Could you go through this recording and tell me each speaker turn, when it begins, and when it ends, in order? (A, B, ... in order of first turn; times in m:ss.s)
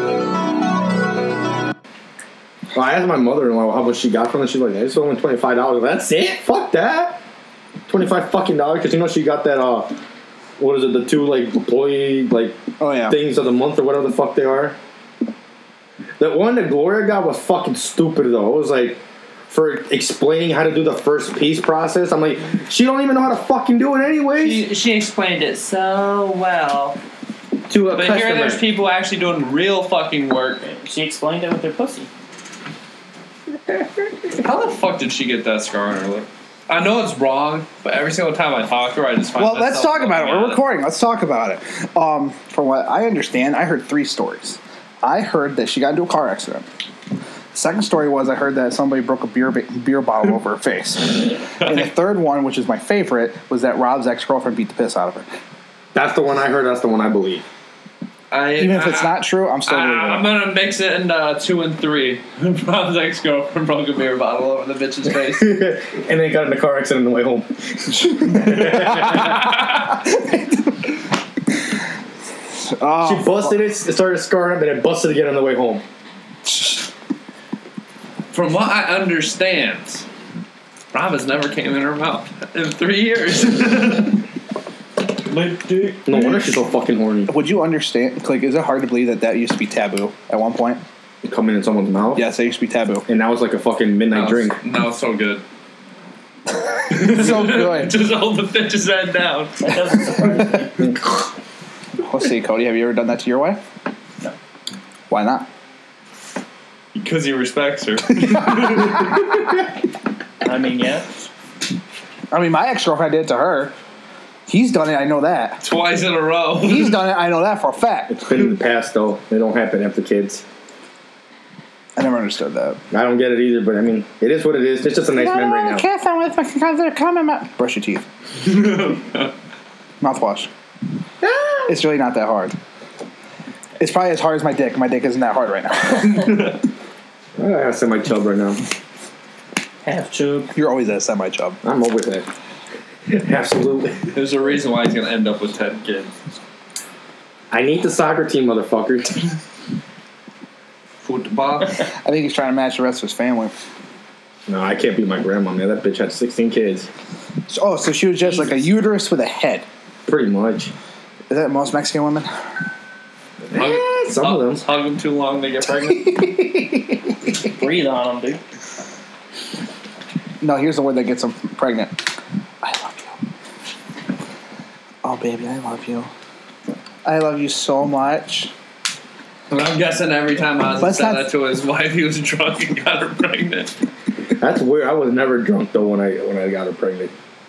0:02.7-0:07.2 A
0:07.9-0:09.9 A
0:10.6-0:12.6 A
0:12.8-0:13.2 B
0:13.1-0:14.8 A
0:16.2-0:24.7 A
0:24.4-0:25.4 C
0:25.3-0:26.1 D
0:26.0-0:26.9 C
0:27.7-0:28.6 A
0:27.9-0:30.6 C
0:30.6-0:32.1 D
0:34.4-0:40.6 C
0:39.4-0:46.7 B
0:47.5-0:55.3 B
0:55.9-0:57.4 A
0:58.3-1:05.5 C
0:58.6-1:00.3 B
1:05.4-1:07.5 A
1:08.0-1:09.5 A
1:08.2-1:09.2 B
1:09.1-1:09.8 C
1:10.1-1:10.4 B
1:12.6-1:13.6 B
1:13.0-1:15.8 A
1:16.5-1:16.9 B
1:18.3-1:20.0 C
1:20.9-1:24.2 C
1:25.4-1:25.9 C
1:26.1-1:27.3 A
1:27.3-1:30.8 B
1:31.2-1:32.2 A
1:32.2-1:33.0 B
1:33.1-1:34.6 A
1:34.1-1:35.4 C
1:36.9-1:40.1 C
1:36.9-1:38.0 B
1:39.6-1:40.8 D
1:42.0-1:43.6 B
1:45.1-1:45.5 B
1:47.0-1:49.3 C
1:50.4-1:51.1 D
1:52.3-1:53.7 B
1:54.5-1:55.6 B
1:55.6-1:57.0 C
1:56.6-1:58.4 B
1:58.2-2:00.4 A
2:02.0-2:02.8 B
2:02.9-2:05.9 A
2:05.1-2:08.0 B
2:08.5-2:09.3 C
2:10.0-2:10.5 B
2:11.2-2:11.7 A
2:11.7-2:12.6 B
2:13.8-2:16.6 B
2:17.4-2:18.6 A
2:19.8-2:20.5 D
2:20.5-2:21.6 B
2:21.6-2:22.3 A
2:23.1-2:24.0 A
2:24.1-2:26.1 C
2:27.5-2:29.2 A
2:31.0-2:31.8 C
2:32.0-2:33.5 B
2:34.5-2:36.9 A
2:37.5-2:39.7 B
2:40.1-2:40.7 A
2:41.3-2:42.3 B
2:43.5-2:44.6 A
2:43.6-2:46.2 C
2:46.1-2:46.8 B
2:47.6-2:48.4 D
2:50.4-2:52.1 B
2:52.6-2:53.1 B
2:55.0-2:56.1 B
2:57.0-2:58.5 B
2:59.5-3:03.7 C
3:00.8-3:01.3 B
3:04.4-3:07.1 A